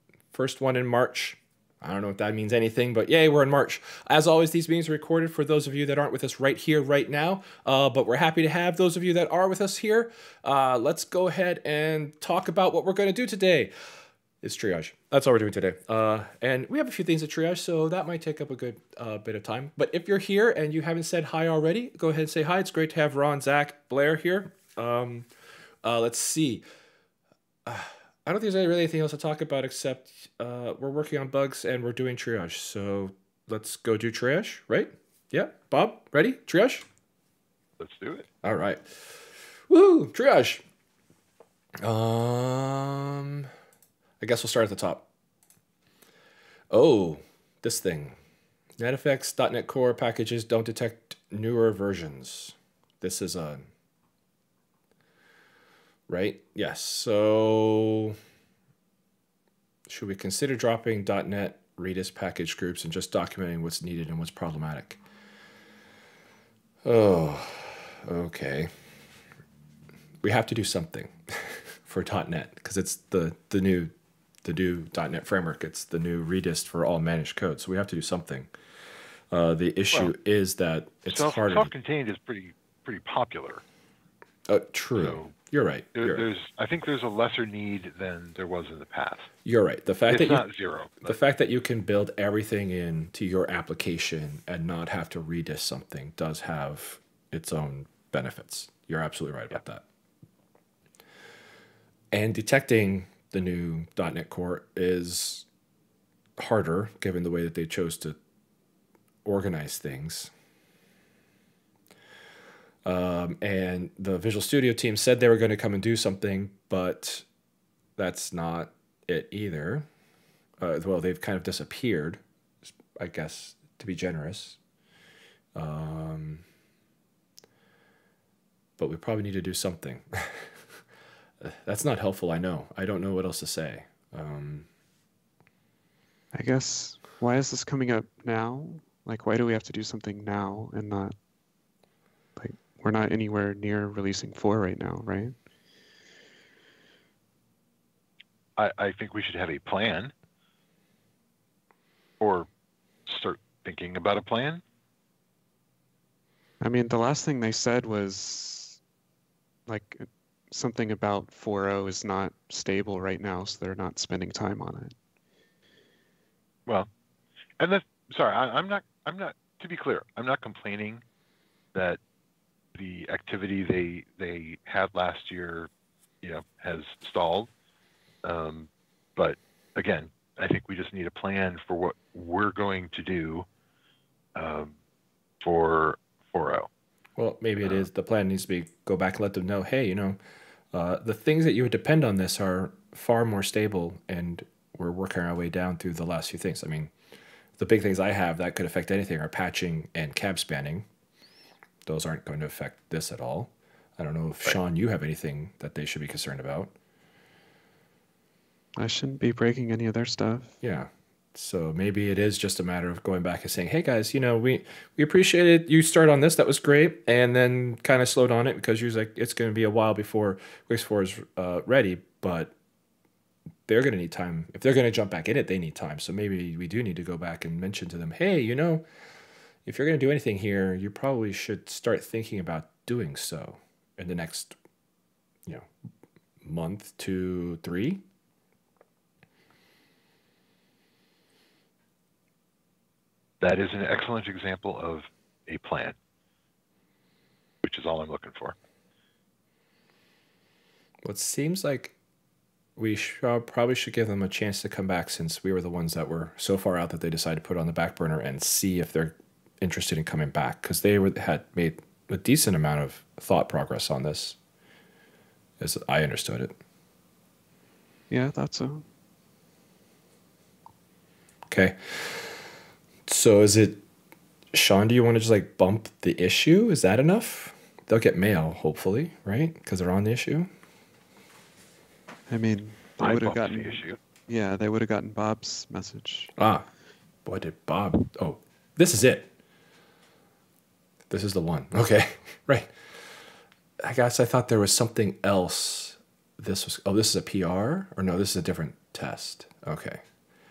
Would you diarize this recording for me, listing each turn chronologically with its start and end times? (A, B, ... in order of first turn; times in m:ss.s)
0:00.3-0:13.7 A
0:14.4-0:25.3 A
0:25.8-0:26.6 A
0:27.7-0:36.8 A
0:37.8-0:38.3 B
0:38.4-0:40.6 A
0:41.8-0:43.5 A
0:44.2-0:45.1 A
0:46.7-0:48.2 A
0:48.8-0:53.7 A
0:56.1-0:58.2 A
0:59.9-1:05.0 A
1:06.8-1:08.7 A
1:10.2-1:13.9 A
1:14.4-1:18.5 A
1:19.3-1:21.7 A
1:21.1-1:23.6 B
1:24.5-1:26.2 A
1:25.0-1:25.3 B
1:26.0-1:29.3 B
1:29.4-1:30.4 A
1:30.1-1:31.2 B
1:31.0-1:39.8 A
1:42.1-1:45.5 A
1:46.4-1:48.2 A
1:49.2-1:50.3 A
1:52.8-1:57.2 A
1:58.0-1:59.9 A
2:00.6-2:02.2 A
2:03.0-2:04.6 A
2:05.5-2:06.4 A
2:08.8-2:10.8 A
2:11.4-2:14.7 A
2:16.3-2:21.2 C
2:22.4-2:25.4 C
2:28.6-2:30.1 B
2:32.2-2:32.5 B
2:33.1-2:34.6 B
2:36.6-2:38.8 C
2:39.7-2:44.9 C
2:47.6-2:51.0 B
2:51.7-2:52.0 B
2:52.7-2:55.7 B
2:56.2-2:57.5 B
2:58.2-3:03.5 B
3:04.3-3:04.8 B
3:05.4-3:06.7 B
3:07.2-3:10.2 A
3:07.6-3:07.9 B
3:10.7-3:16.9 A
3:17.6-3:20.9 A
3:21.8-3:26.7 A
3:28.8-3:30.6 C
3:30.6-3:42.5 A
3:43.7-3:48.8 A
3:49.6-3:54.6 A
3:56.4-3:58.0 A
4:03.4-4:06.0 B
4:07.6-4:08.6 B
4:11.0-4:12.0 A
4:12.8-4:24.4 A
4:25.6-4:26.6 A
4:28.1-4:28.8 C
4:31.5-4:32.4 A
4:33.1-4:33.8 A
4:34.5-4:40.5 A
4:42.3-4:46.3 C
4:43.0-4:44.0 B
4:46.4-4:46.7 A
4:47.2-4:49.3 A
4:51.1-4:52.8 A
4:53.8-5:00.0 A